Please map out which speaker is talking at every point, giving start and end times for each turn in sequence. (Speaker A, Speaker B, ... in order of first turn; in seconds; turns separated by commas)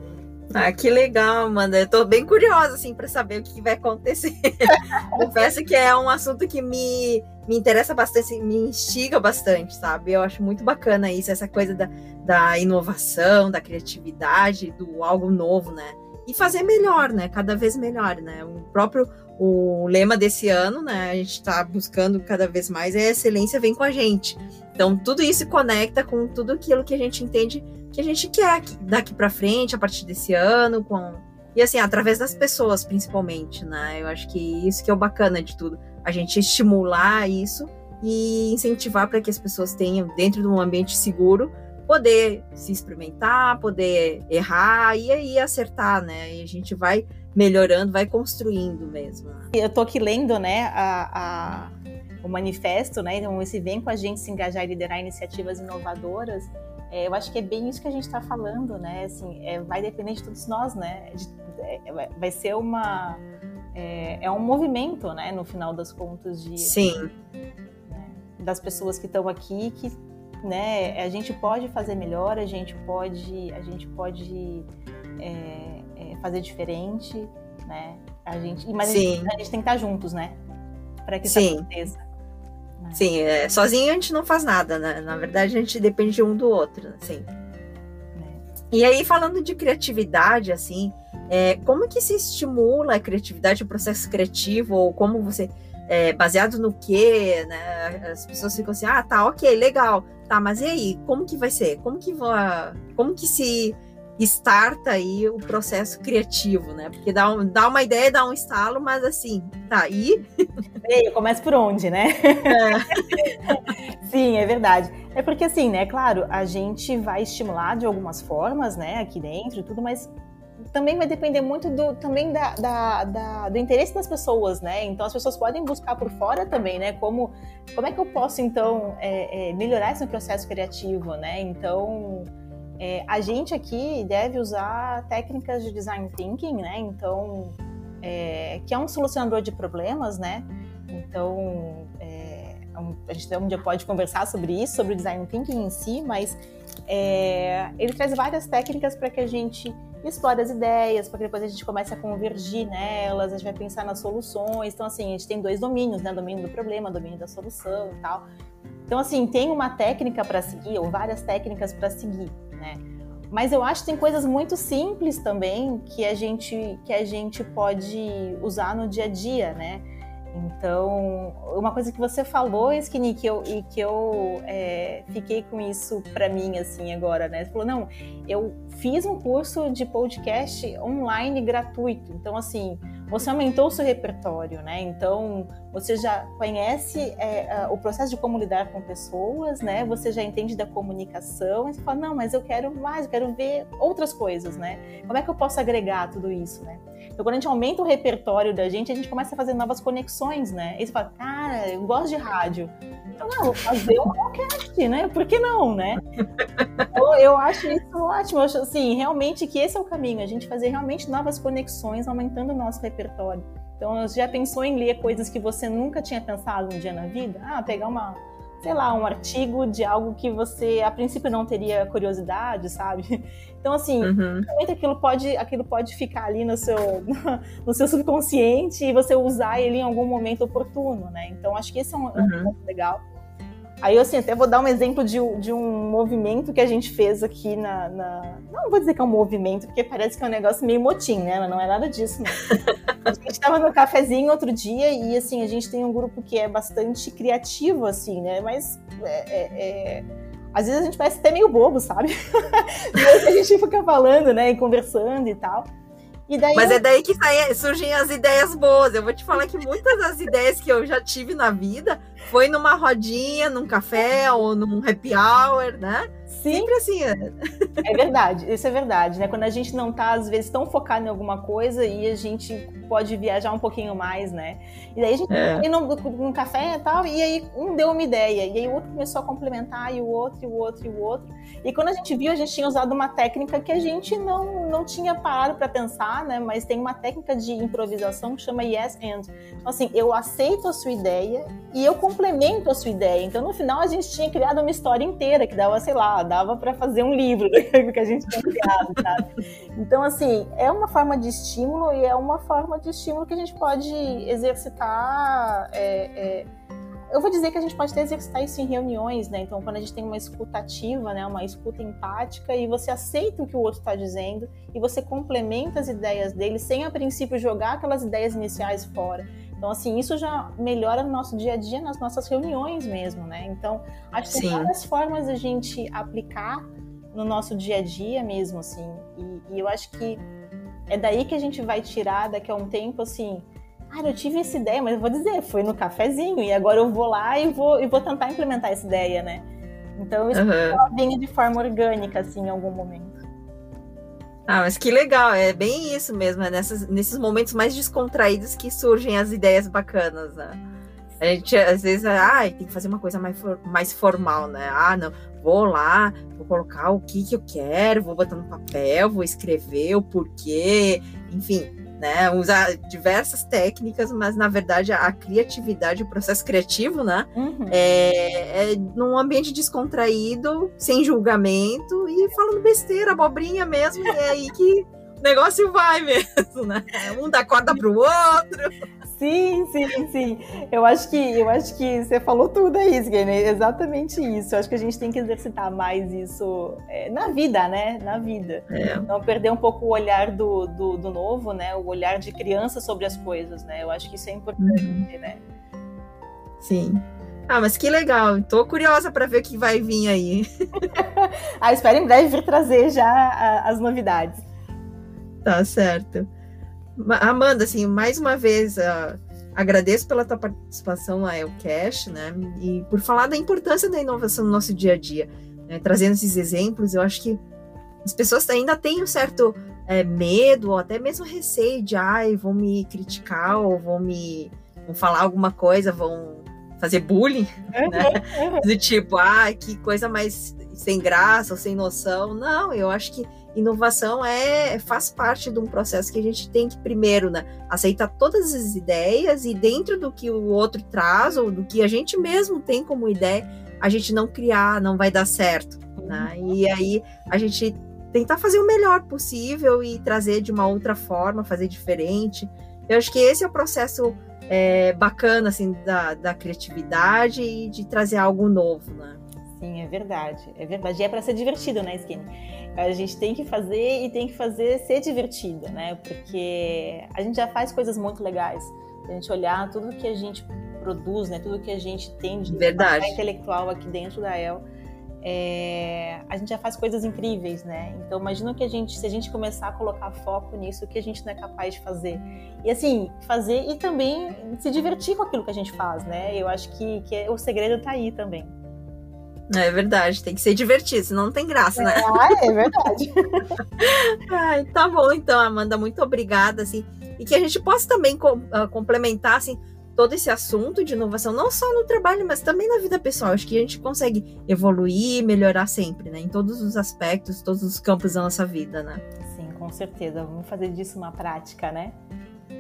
Speaker A: 0.5-49.5, Speaker B: 49.5-63.2, Speaker B: 63.8-66.8, Speaker A: 66.6-67.1, Speaker B: 67.9-74.7, Speaker B: 75.2-80.4, Speaker A: 78.8-79.3, Speaker B: 81.1-82.0, Speaker A: 81.2-81.6, Speaker B: 82.8-83.0, Speaker A: 83.0-87.3, Speaker B: 88.2-88.4, Speaker A: 88.7-110.2, Speaker B: 110.8-120.1, Speaker A: 112.5-113.0, Speaker B: 120.7-158.3, Speaker B: 158.9-206.0, Speaker B: 206.9-233.0, Speaker A: 224.0-224.5, Speaker A: 232.2-232.5, Speaker B: 233.8-242.5, Speaker B: 243.1-255.7, Speaker B: 256.3-256.8, Speaker A: 256.6-267.8, Speaker B: 266.3-266.7, Speaker B: 267.8-306.5, Speaker A: 275.3-275.6, Speaker B: 307.1-330.2, Speaker A: 324.3-324.7, Speaker B: 330.9-339.4, Speaker B: 340.0-343.2, Speaker A: 340.3-340.8, Speaker A: 344.5-350.6, Speaker A: 351.2-378.7, Speaker B: 367.4-367.8, Speaker B: 379.1-395.4, Speaker A: 388.7-389.1, Speaker A: 394.6-395.0, Speaker A: 396.6-400.4, Speaker B: 400.9-404.4, Speaker A: 405.4-406.3, Speaker A: 406.9-417.4, Speaker A: 418.1-459.2, Speaker B: 427.8-428.7, Speaker B: 446.0-446.5, Speaker B: 459.5-474.6, Speaker A: 472.5-473.2, Speaker B: 475.2-488.5, Speaker A: 489.5-492.3, Speaker B: 491.8-493.6, Speaker A: 493.8-509.0, Speaker B: 509.3-511.9